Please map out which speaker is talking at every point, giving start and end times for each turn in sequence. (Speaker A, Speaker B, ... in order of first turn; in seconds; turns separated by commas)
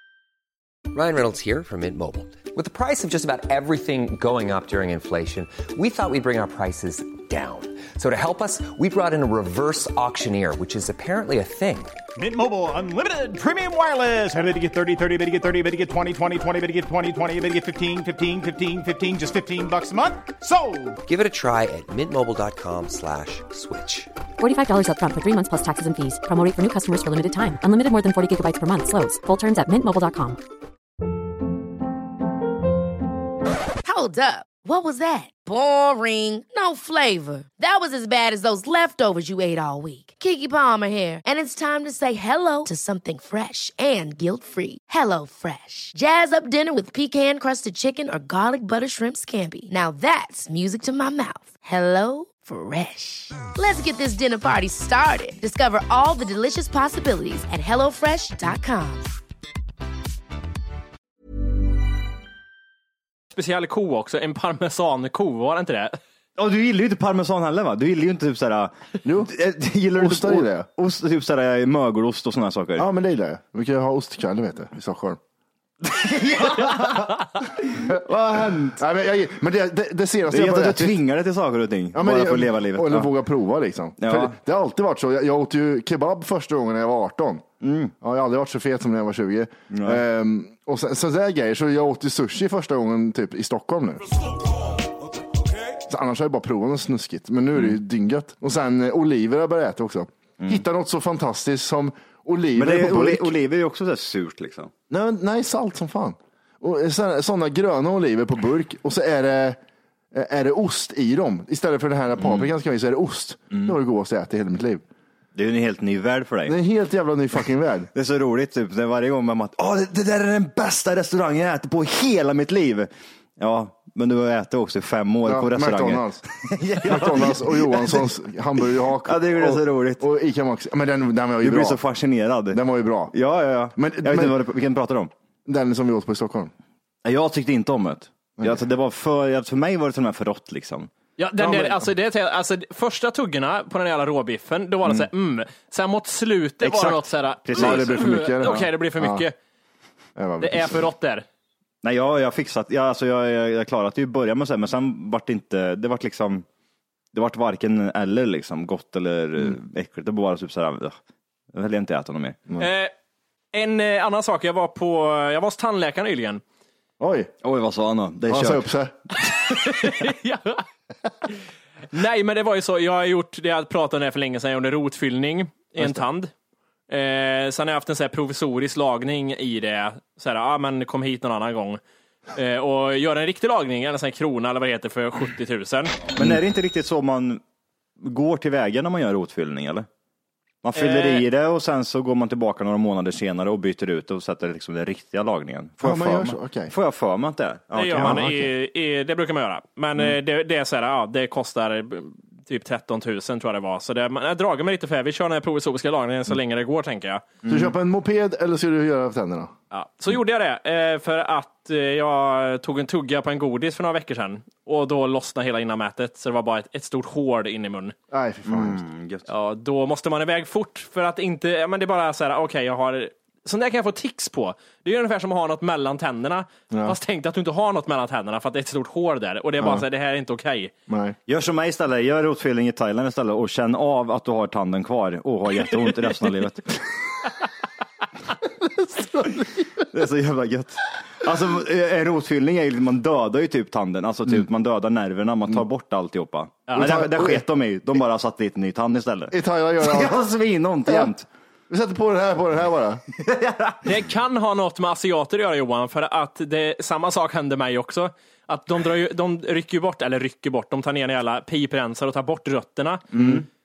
Speaker A: 0.9-12.0, Speaker B: 12.2-21.0, Speaker A: 21.0-24.1, Speaker C: 24.4-30.4, Speaker D: 33.8-59.0, Speaker E: 63.3-66.0, Speaker F: 66.3-72.9, Speaker G: 69.0-69.3, Speaker G: 69.9-70.7, Speaker G: 72.8-75.2, Speaker F: 75.8-78.8, Speaker G: 78.8-81.0, Speaker F: 80.3-83.1, Speaker G: 81.9-87.4, Speaker F: 84.0-84.3, Speaker F: 87.6-87.9, Speaker G: 88.0-94.0, Speaker F: 89.7-90.0, Speaker G: 95.9-103.3, Speaker F: 102.5-104.7, Speaker G: 104.9-109.6, Speaker G: 110.1-114.8, Speaker F: 112.2-112.5, Speaker F: 115.3-116.6, Speaker G: 116.5-117.9, Speaker F: 117.9-128.1, Speaker G: 125.2-126.2, Speaker G: 126.8-131.8, Speaker F: 129.0-130.0, Speaker F: 131.4-132.6, Speaker G: 132.5-133.1, Speaker F: 133.1-135.1, Speaker G: 133.8-134.3, Speaker G: 135.4-136.5, Speaker F: 137.0-141.8, Speaker E: 141.2-149.3, Speaker F: 146.6-148.7, Speaker G: 147.5-149.2, Speaker G: 150.2-150.7, Speaker E: 150.4-151.2, Speaker F: 151.8-156.4, Speaker F: 157.1-160.9, Speaker F: 161.5-162.4, Speaker E: 162.6-162.9, Speaker E: 163.5-166.4, Speaker G: 167.0-167.3, Speaker F: 167.4-168.7, Speaker G: 168.3-168.9, Speaker E: 169.6-170.6, Speaker E: 171.9-176.3, Speaker E: 176.9-181.8, Speaker E: 182.3-186.0, Speaker F: 186.1-187.4, Speaker F: 188.0-189.9, Speaker F: 190.6-198.5, Speaker E: 190.8-191.2, Speaker G: 195.8-196.7, Speaker E: 197.7-207.2, Speaker G: 197.9-198.3, Speaker F: 207.4-207.7, Speaker G: 207.4-209.5, Speaker E: 209.7-217.9, Speaker G: 218.1-218.8, Speaker F: 218.4-219.3, Speaker E: 219.3-230.7, Speaker G: 226.7-227.0, Speaker G: 229.6-229.8, Speaker G: 230.9-231.2, Speaker F: 231.3-236.8, Speaker G: 238.4-239.9, Speaker F: 239.9-251.3, Speaker E: 246.7-247.3, Speaker G: 246.7-247.4, Speaker G: 249.3-250.1, Speaker G: 251.7-253.0, Speaker F: 253.1-253.9, Speaker E: 253.8-263.1, Speaker F: 263.1-263.4, Speaker G: 263.1-263.4